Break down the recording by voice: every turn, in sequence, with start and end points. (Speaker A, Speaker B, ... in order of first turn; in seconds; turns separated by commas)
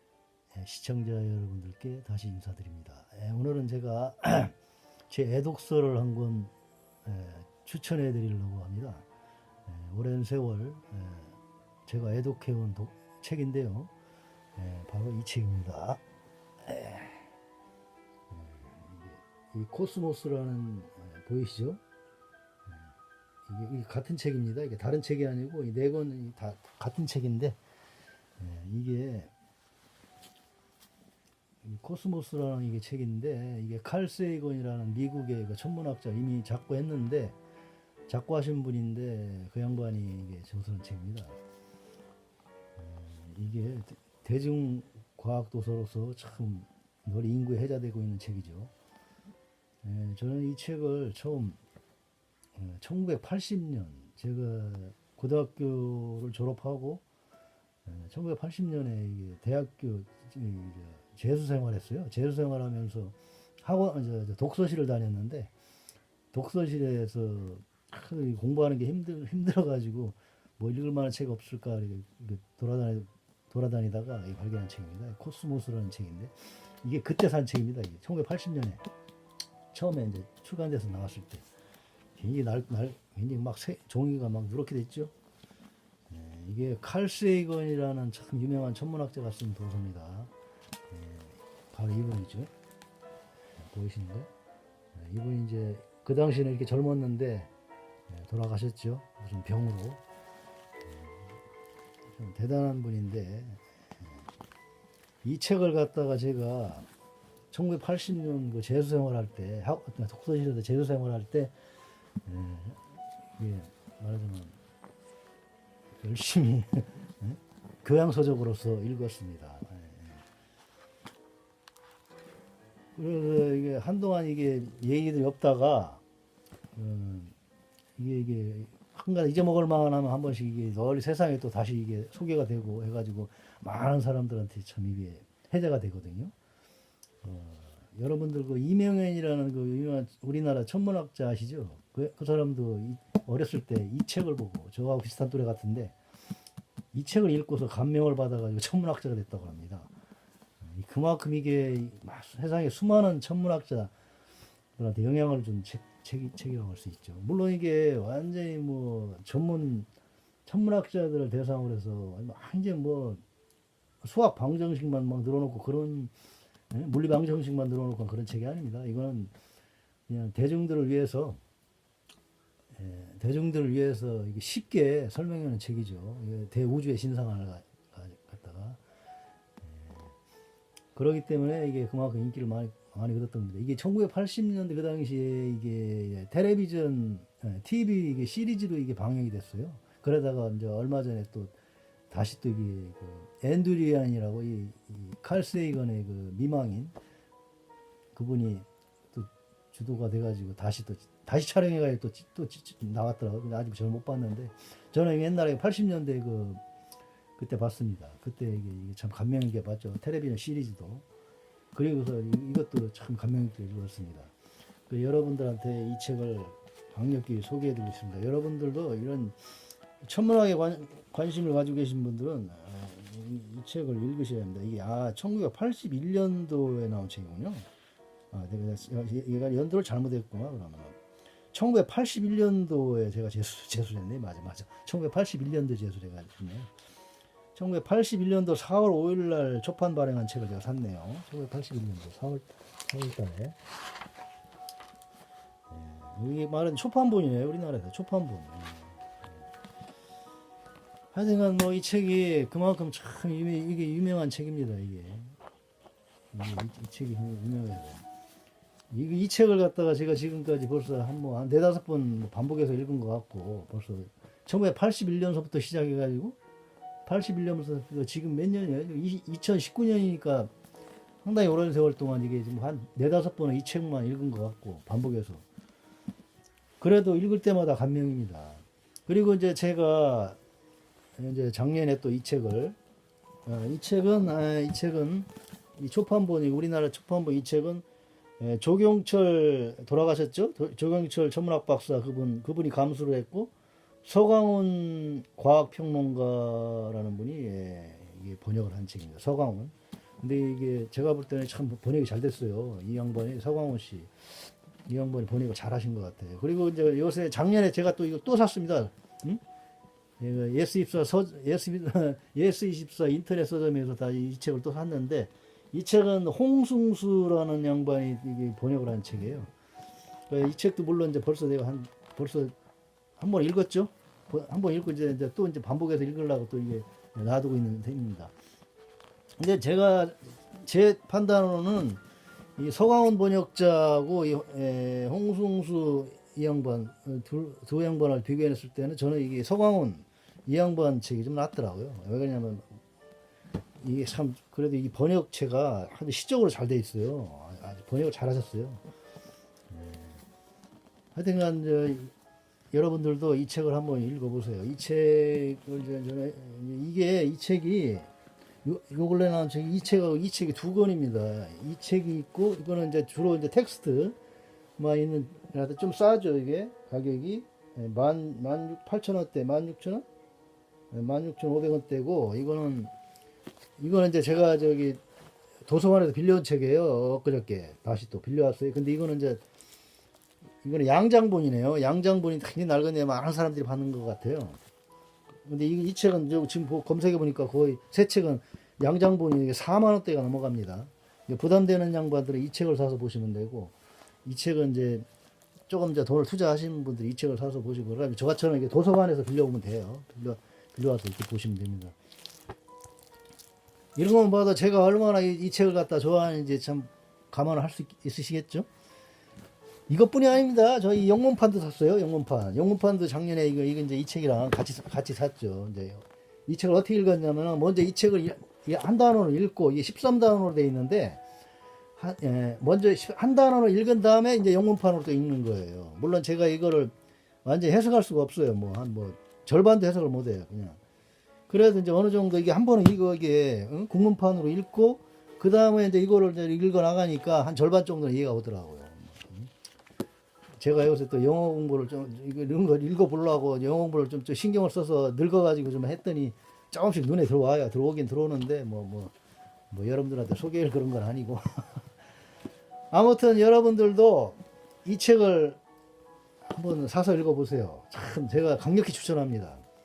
Speaker A: 0.5-4.5, Speaker A: 5.1-6.5, Speaker A: 7.0-9.1, Speaker A: 9.7-13.9, Speaker A: 14.6-16.0, Speaker A: 16.6-17.3, Speaker A: 18.3-21.8, Speaker A: 22.6-22.9, Speaker A: 23.5-27.6, Speaker A: 28.4-29.3, Speaker A: 31.6-37.4, Speaker A: 38.1-41.4, Speaker A: 42.8-48.7, Speaker A: 49.8-51.6, Speaker A: 52.5-57.0, Speaker A: 57.9-65.5, Speaker A: 66.3-78.8, Speaker A: 79.7-81.5, Speaker A: 82.2-85.1, Speaker A: 86.1-90.3, Speaker A: 90.9-92.5, Speaker A: 93.6-94.3, Speaker A: 94.9-97.5, Speaker A: 98.1-100.0, Speaker A: 100.8-101.2, Speaker A: 102.1-104.2, Speaker A: 105.2-106.9, Speaker A: 107.5-111.5, Speaker A: 112.2-112.8, Speaker A: 113.3-114.6, Speaker A: 116.0-120.2, Speaker A: 123.0-126.0, Speaker A: 126.7-127.3, Speaker A: 128.0-136.3, Speaker A: 137.2-145.9, Speaker A: 146.9-149.9, Speaker A: 150.6-153.9, Speaker A: 154.8-159.9, Speaker A: 160.4-163.2, Speaker A: 164.0-166.1, Speaker A: 166.7-169.3, Speaker A: 170.1-171.4, Speaker A: 172.7-178.8, Speaker A: 179.6-180.1, Speaker A: 180.9-191.5, Speaker A: 192.1-196.9, Speaker A: 198.1-206.6, Speaker A: 207.4-211.0, Speaker A: 211.7-214.3, Speaker A: 214.9-219.4, Speaker A: 220.0-227.7, Speaker A: 228.3-231.0, Speaker A: 231.5-236.7, Speaker A: 237.5-243.6, Speaker A: 245.7-249.4, Speaker A: 251.1-255.3, Speaker A: 256.3-258.0, Speaker A: 258.9-266.4, Speaker A: 267.1-270.5, Speaker A: 271.2-275.4, Speaker A: 276.8-280.4, Speaker A: 281.2-282.8, Speaker A: 283.4-287.8, Speaker A: 288.4-293.5, Speaker A: 294.0-309.4, Speaker A: 310.2-319.5, Speaker A: 320.3-322.5, Speaker A: 323.2-328.3, Speaker A: 329.4-332.0, Speaker A: 332.6-342.8, Speaker A: 343.8-348.8, Speaker A: 349.7-350.2, Speaker A: 351.1-352.1, Speaker A: 352.7-358.1, Speaker A: 358.6-364.1, Speaker A: 364.8-370.1, Speaker A: 370.9-372.9, Speaker A: 373.8-375.0, Speaker A: 375.6-379.4, Speaker A: 380.6-384.6, Speaker A: 385.4-393.7, Speaker A: 394.2-395.1, Speaker A: 395.7-401.9, Speaker A: 403.9-408.7, Speaker A: 409.9-421.2, Speaker A: 422.0-426.9, Speaker A: 427.4-430.8, Speaker A: 431.5-439.5, Speaker A: 440.6-449.1, Speaker A: 449.7-451.9, Speaker A: 452.9-455.6, Speaker A: 456.4-459.6